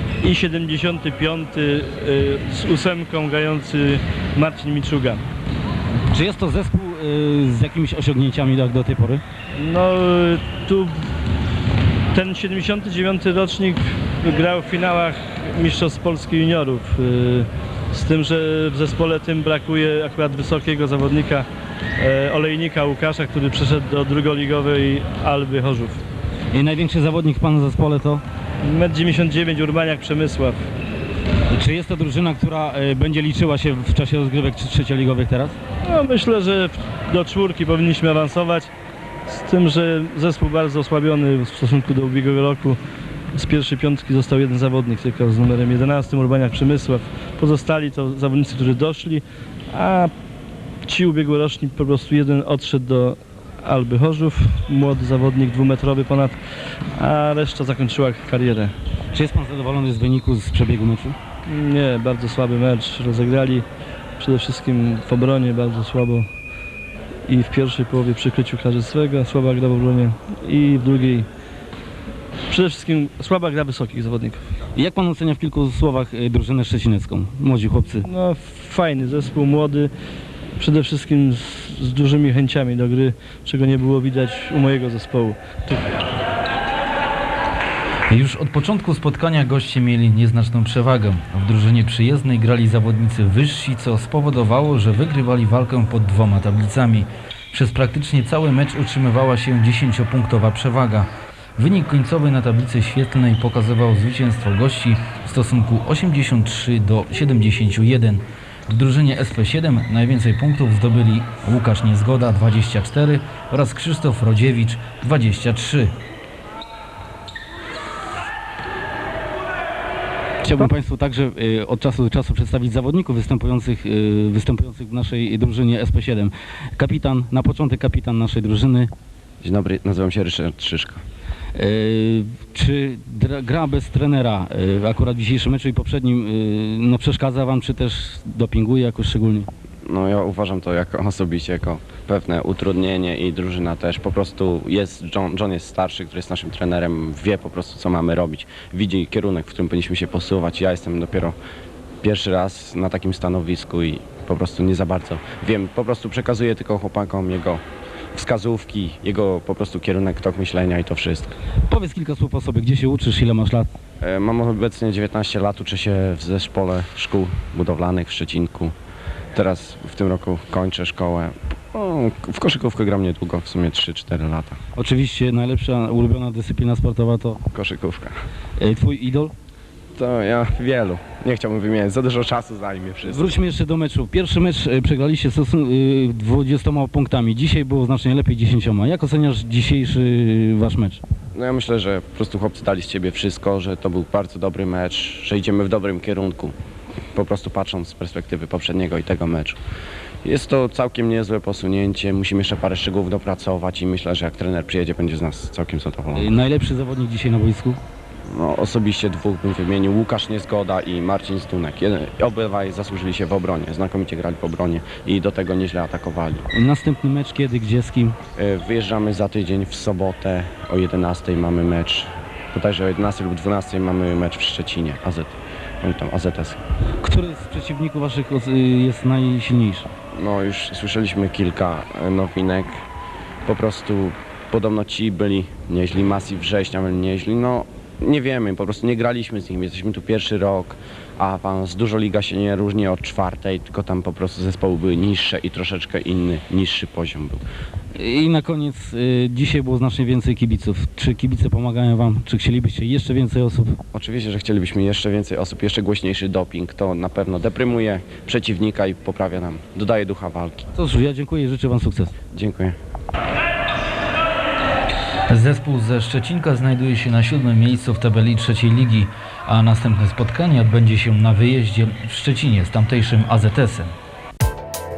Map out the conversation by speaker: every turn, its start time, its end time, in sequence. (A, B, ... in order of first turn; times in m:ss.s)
0:00.2-0:05.2 A
0:06.1-0:09.2 B
0:09.6-0:11.0 A
0:12.1-0:21.5 A
0:22.0-0:26.0 A
0:26.5-0:28.2 B
0:28.6-0:30.7 A
0:31.6-0:35.6 B
0:35.8-0:38.7 A
0:39.3-0:42.8 A
0:43.3-0:50.1 A
0:50.8-0:58.8 A
0:59.1-1:01.2 B
1:01.5-1:03.7 A
1:04.2-1:06.3 A
1:07.3-1:11.3 A
1:12.5-1:14.5 A
1:14.8-1:18.1 B
1:18.0-1:19.9 A
1:20.6-1:25.9 A
1:28.1-1:55.9 C
2:00.5-2:06.3 B
2:06.8-2:08.9 B
2:09.4-2:11.0 D
2:11.6-2:19.5 B
2:19.8-2:31.4 D
2:32.0-2:41.4 D
2:41.7-2:43.6 B
2:44.0-2:48.8 D
2:49.3-2:54.6 D
2:54.8-2:57.3 B
2:57.5-2:58.2 D
2:58.6-2:59.3 B
3:00.0-3:03.4 D
3:03.3-3:11.0 B
3:11.3-3:16.6 D
3:17.1-3:19.6 D
3:20.2-3:26.4 D
3:26.3-3:27.8 B
3:28.3-3:36.5 D
3:36.6-3:38.1 B
3:38.4-3:46.6 D
3:47.0-3:49.9 B
3:50.1-3:52.8 D
3:53.5-4:07.4 D
4:08.0-4:13.7 B
4:13.9-4:20.7 D
4:20.8-4:22.1 B
4:22.3-4:22.8 D
4:25.3-4:33.9 C